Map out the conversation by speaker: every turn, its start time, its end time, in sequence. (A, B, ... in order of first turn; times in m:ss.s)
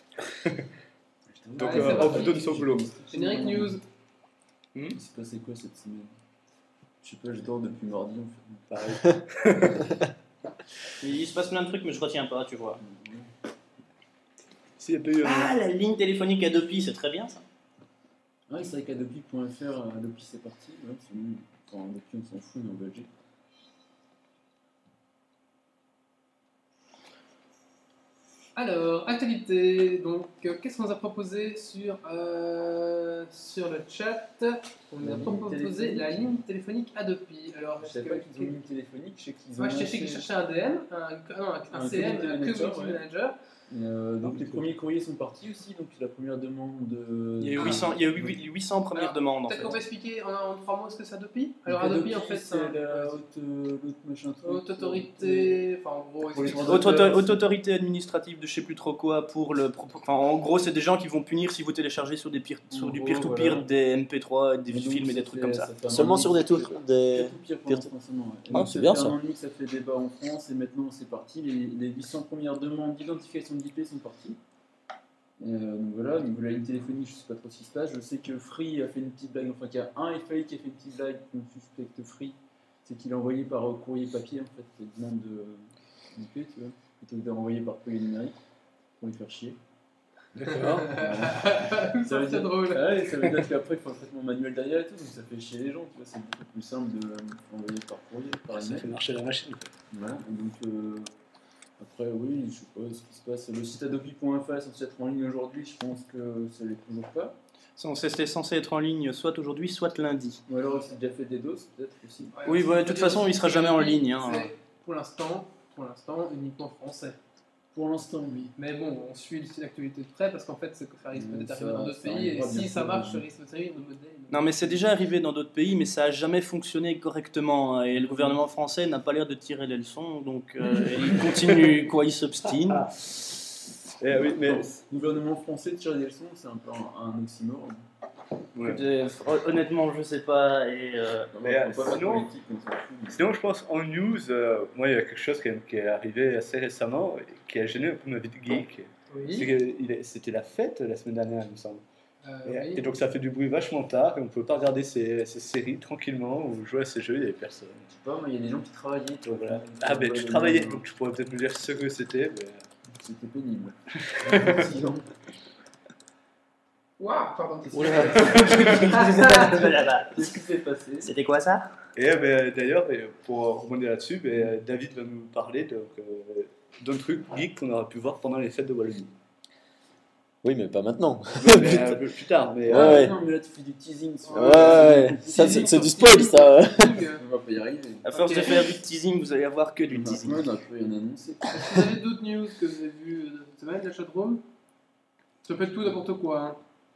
0:01.3-0:03.8 A
0:01.6-0:02.9 B
0:01.6-0:03.8 C
0:05.0-0:06.2 A
0:07.0-0:08.7 A
0:08.7-0:10.0 B
0:11.0-0:12.8 D
0:12.8-0:13.3 A
0:14.8-0:15.5 B
0:15.2-0:17.4 D
0:18.5-0:23.1 A
0:28.6-0:38.6 C
0:35.0-0:36.3 A
0:37.8-0:40.3 A
0:39.6-0:43.4 C
0:41.7-0:43.0 A
0:43.7-0:48.4 A
0:44.2-0:44.7 B
0:47.4-0:49.8 D
0:47.6-0:47.9 C
0:49.0-0:53.2 C
0:51.7-0:55.6 A
0:54.4-0:57.1 C
0:56.2-0:57.4 A
0:56.7-1:05.7 D
1:02.7-1:03.7 A
1:04.7-1:14.4 A
1:05.9-1:07.9 E
1:08.5-1:09.2 E
1:15.4-1:28.4 A
1:29.0-1:29.6 A
1:30.4-1:31.0 B
1:30.5-1:32.8 C
1:30.9-1:39.0 A
1:38.5-1:39.7 B
1:39.9-1:41.1 A
1:41.8-1:47.4 A
1:47.8-1:50.4 D
1:50.5-1:52.4 A
1:52.4-1:57.2 C
1:52.5-1:54.5 D
1:57.7-1:58.5 A
1:58.6-2:04.8 C
2:01.1-2:03.2 A
2:04.3-2:12.9 D
2:11.1-2:11.6 B
2:14.0-2:14.8 B
2:14.3-2:17.8 A
2:18.6-2:18.8 B
2:18.6-2:21.3 D
2:21.3-2:23.2 A
2:21.4-2:22.3 B
2:23.1-2:31.8 B
2:29.1-2:29.5 C
2:32.2-2:32.9 C
2:32.4-2:37.9 B
2:37.9-2:40.8 A
2:39.2-2:42.6 B
2:43.0-2:45.1 A
2:44.1-2:44.7 B
2:47.0-2:49.6 C
2:47.7-2:51.1 A
2:48.2-2:49.1 B
2:48.6-2:50.3 D
2:51.0-2:51.7 D
2:52.0-2:59.1 B
3:00.4-3:02.0 E
3:01.4-3:03.0 B
3:02.7-3:05.9 A
3:02.7-3:03.1 E
3:04.3-3:07.2 C
3:04.3-3:07.0 E
3:07.1-3:08.0 A
3:08.0-3:10.5 D
3:08.1-3:08.7 C
3:09.9-3:11.8 A
3:11.5-3:14.4 C
3:15.4-3:16.6 C